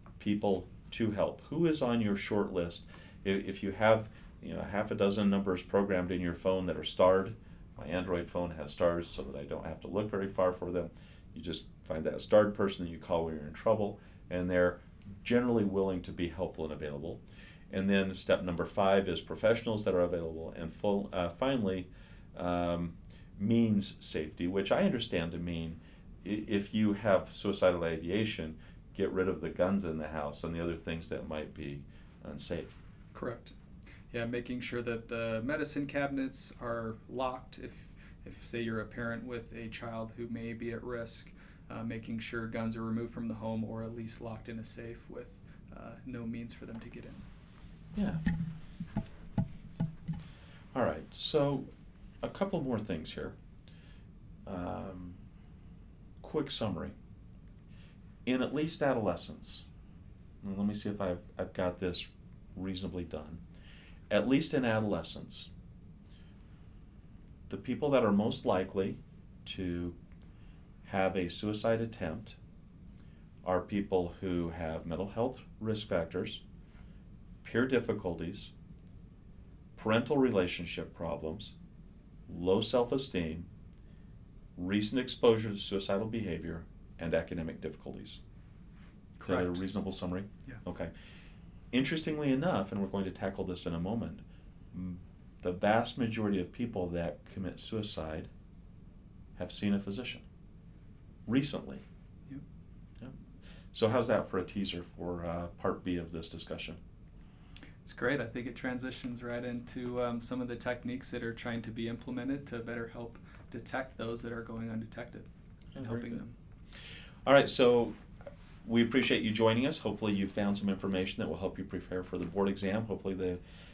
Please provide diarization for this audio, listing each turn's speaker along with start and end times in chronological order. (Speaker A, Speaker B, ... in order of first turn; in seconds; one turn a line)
Speaker A: 0.2-32.7
Speaker B: 33.1-33.5
Speaker B: 34.1-47.2
Speaker A: 47.9-48.2
Speaker A: 50.7-51.7
Speaker A: 52.2-53.4
Speaker A: 54.5-55.2
Speaker A: 56.2-57.0
Speaker A: 58.2-59.6
Speaker A: 60.4-63.4
Speaker A: 64.1-65.5
Speaker A: 67.5-70.0
Speaker A: 70.8-72.4
Speaker A: 73.4-76.4
Speaker A: 77.4-78.5
Speaker A: 79.8-81.5
Speaker A: 82.3-83.5
Speaker A: 84.5-88.2
Speaker B: 89.2-89.6
Speaker A: 89.2-90.9
Speaker A: 91.7-98.3
Speaker A: 99.3-100.2
Speaker A: 101.2-101.8
Speaker A: 103.7-106.8
Speaker B: 107.8-116.3
Speaker A: 115.7-116.2
Speaker A: 117.2-118.0
Speaker A: 118.6-123.4